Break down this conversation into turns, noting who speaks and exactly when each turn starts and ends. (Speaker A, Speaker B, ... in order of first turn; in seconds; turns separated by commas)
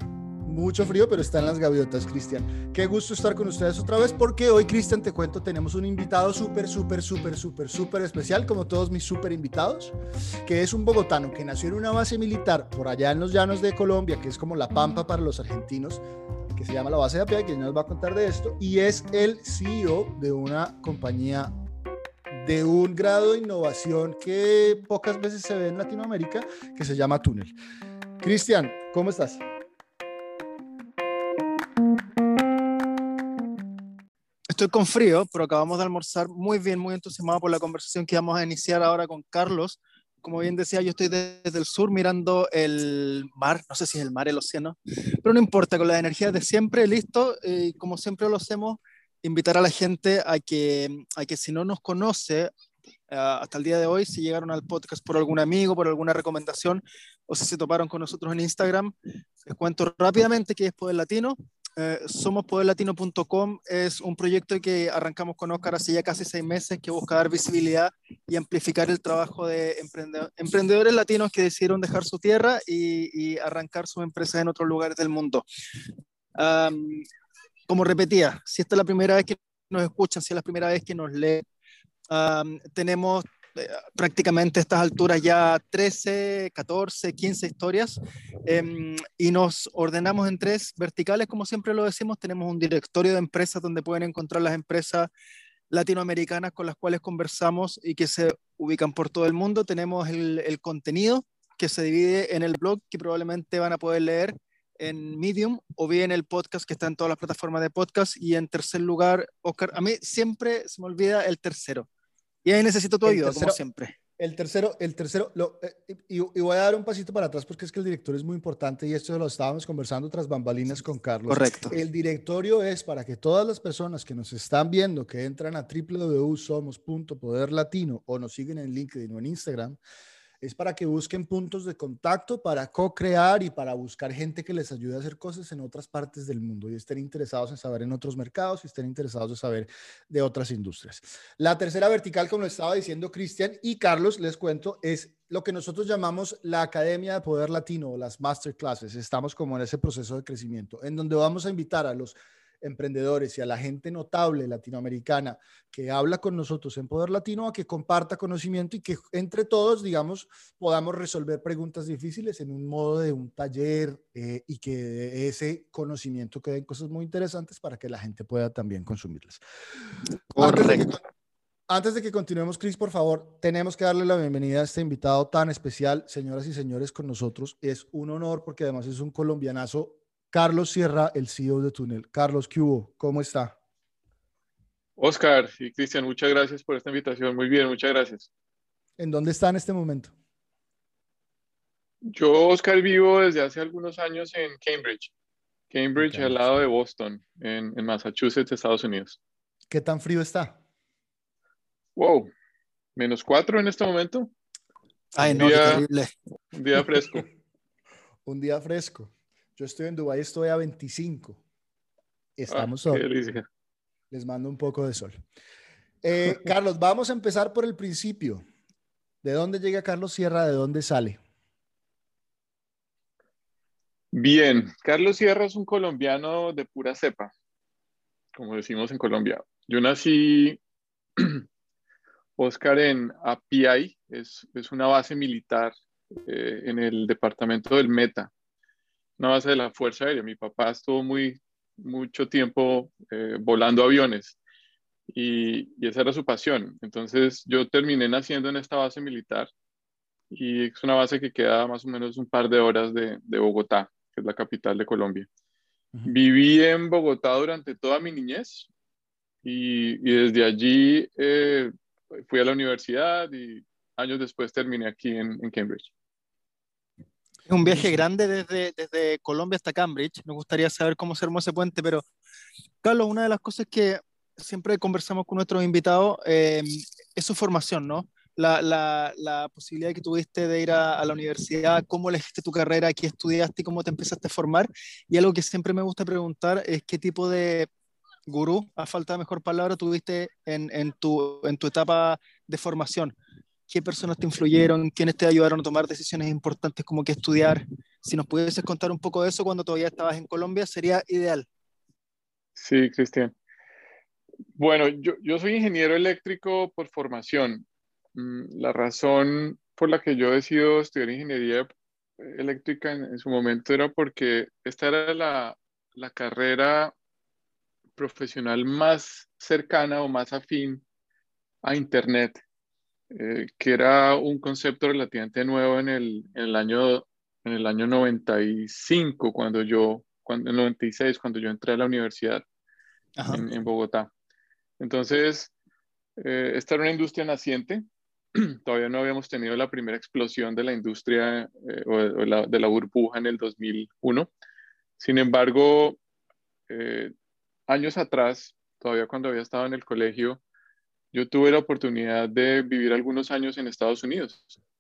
Speaker A: 0.5-16.0, Speaker A: 16.5-21.5, Speaker A: 22.3-27.6, Speaker A: 28.2-29.4, Speaker B: 34.5-52.5, Speaker B: 53.1-58.9, Speaker B: 59.5-75.5, Speaker B: 76.4-77.1, Speaker B: 77.7-81.5, Speaker B: 82.1-95.1, Speaker B: 95.7-111.9, Speaker B: 112.5-114.0, Speaker A: 113.0-113.6, Speaker A: 114.2-129.8, Speaker B: 121.3-121.8, Speaker A: 130.4-169.4, Speaker B: 170.3-170.9, Speaker A: 170.4-171.0, Speaker A: 171.7-183.6, Speaker C: 185.0-188.3, Speaker A: 189.0-190.1, Speaker C: 192.1-195.1, Speaker C: 195.7-199.2, Speaker A: 196.0-196.4, Speaker A: 199.7-200.6, Speaker C: 202.0-202.3, Speaker C: 203.0-204.3, Speaker B: 205.2-206.1, Speaker A: 205.2-205.8, Speaker C: 205.4-205.8, Speaker C: 206.5-207.2, Speaker A: 208.2-211.4, Speaker A: 212.4-213.0, Speaker C: 212.5-213.5, Speaker A: 214.1-215.2, Speaker A: 216.0-218.4, Speaker A: 219.2-221.2, Speaker C: 224.1-227.3, Speaker C: 228.3-230.6, Speaker C: 231.2-231.4, Speaker C: 232.4-235.7, Speaker C: 236.3-238.3, Speaker C: 239.2-244.4, Speaker C: 245.1-249.5, Speaker C: 250.3-255.3, Speaker C: 256.1-258.7, Speaker C: 259.4-265.9, Speaker B: 267.5-272.1, Speaker B: 272.8-287.7, Speaker B: 288.3-293.2, Speaker B: 293.7-301.5, Speaker C: 302.6-303.3, Speaker C: 304.6-311.7, Speaker C: 312.2-316.9, Speaker C: 318.0-320.8, Speaker C: 321.6-322.4, Speaker C: 323.1-332.4, Speaker B: 333.2-333.4, Speaker C: 333.3-334.1, Speaker C: 334.8-335.5, Speaker C: 336.2-337.8, Speaker C: 338.4-344.3, Speaker C: 345.0-346.0, Speaker C: 346.7-347.1, Speaker C: 347.7-350.4, Speaker C: 351.1-354.6